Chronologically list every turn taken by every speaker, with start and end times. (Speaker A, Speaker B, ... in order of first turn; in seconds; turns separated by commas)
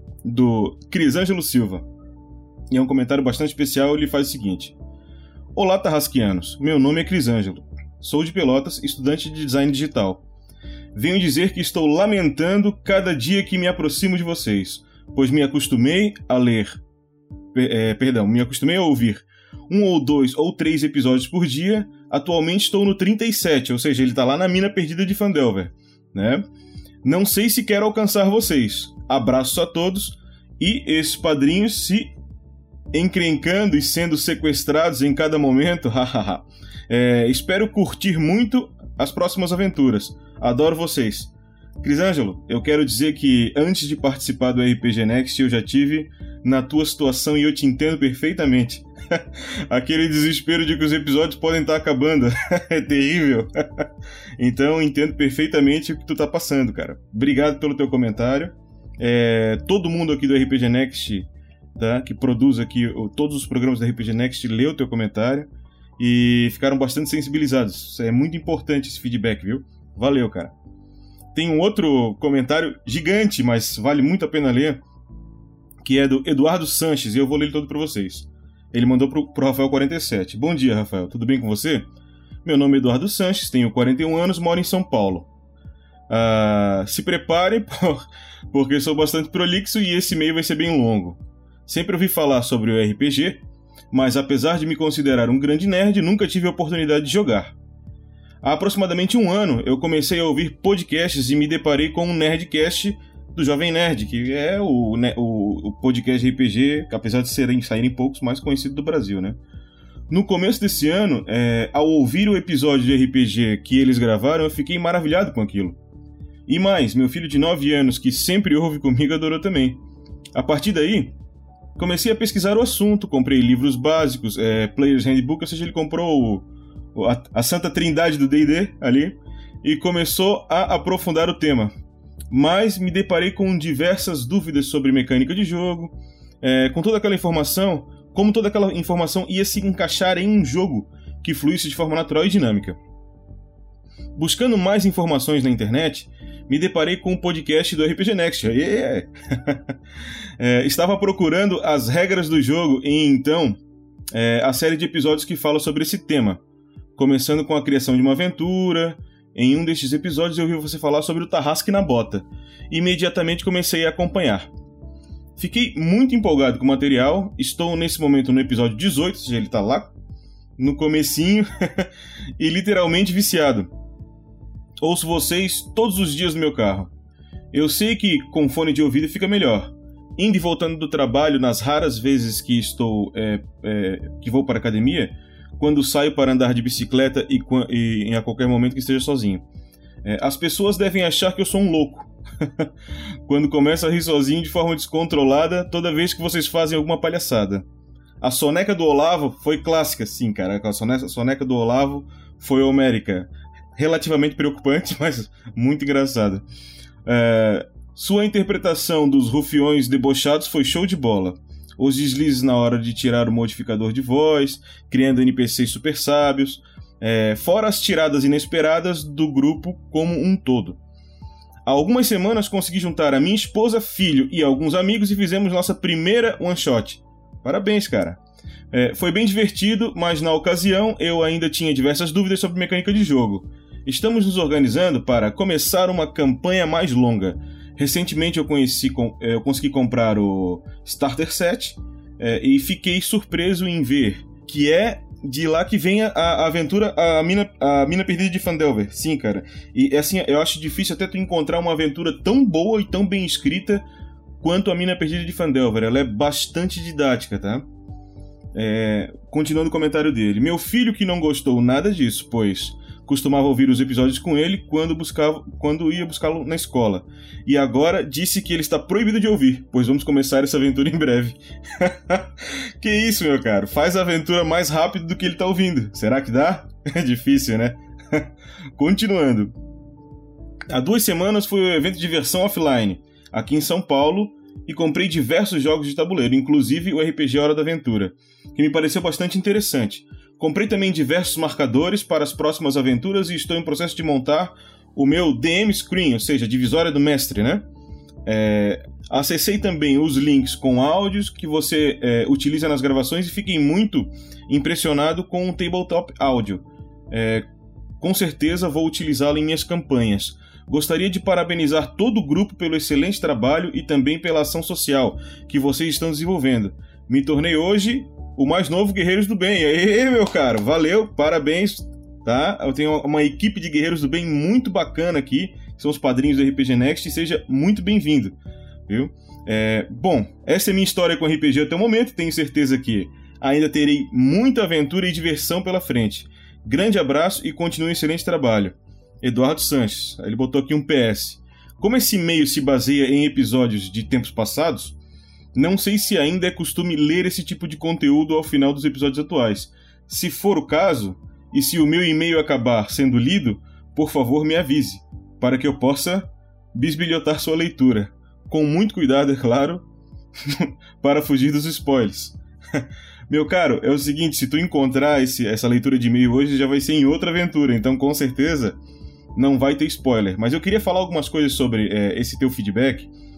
Speaker A: 0.2-1.8, Speaker A: 2.7-4.7, Speaker A: 5.5-10.2, Speaker A: 10.9-16.8, Speaker A: 17.5-26.4, Speaker A: 27.0-32.1, Speaker A: 32.9-41.3, Speaker A: 41.8-48.9, Speaker A: 49.7-53.5, Speaker A: 54.4-70.5, Speaker A: 71.3-74.8, Speaker A: 75.8-81.9, Speaker A: 82.4-85.3, Speaker A: 86.1-97.5, Speaker A: 98.4-109.4, Speaker A: 110.1-115.8, Speaker A: 116.5-119.8, Speaker A: 120.3-121.1, Speaker A: 121.8-131.7, Speaker A: 132.3-142.8, Speaker A: 144.2-149.1, Speaker A: 150.4-153.6, Speaker A: 154.1-156.4, Speaker A: 157.0-164.5, Speaker A: 165.4-169.9, Speaker A: 170.6-171.4, Speaker A: 172.4-173.7, Speaker A: 174.8-176.9, Speaker A: 177.5-189.4, Speaker A: 190.0-192.1, Speaker A: 193.2-197.6, Speaker A: 198.2-206.4, Speaker A: 207.1-220.8, Speaker A: 221.7-228.2, Speaker A: 228.7-253.8, Speaker A: 254.4-257.6, Speaker A: 258.5-271.4, Speaker A: 272.8-277.8, Speaker A: 278.8-279.5, Speaker A: 280.7-297.6, Speaker A: 298.3-307.5, Speaker A: 308.0-328.3, Speaker A: 328.9-345.0, Speaker A: 345.6-359.8, Speaker A: 361.0-362.4, Speaker A: 363.3-368.8, Speaker A: 369.4-373.1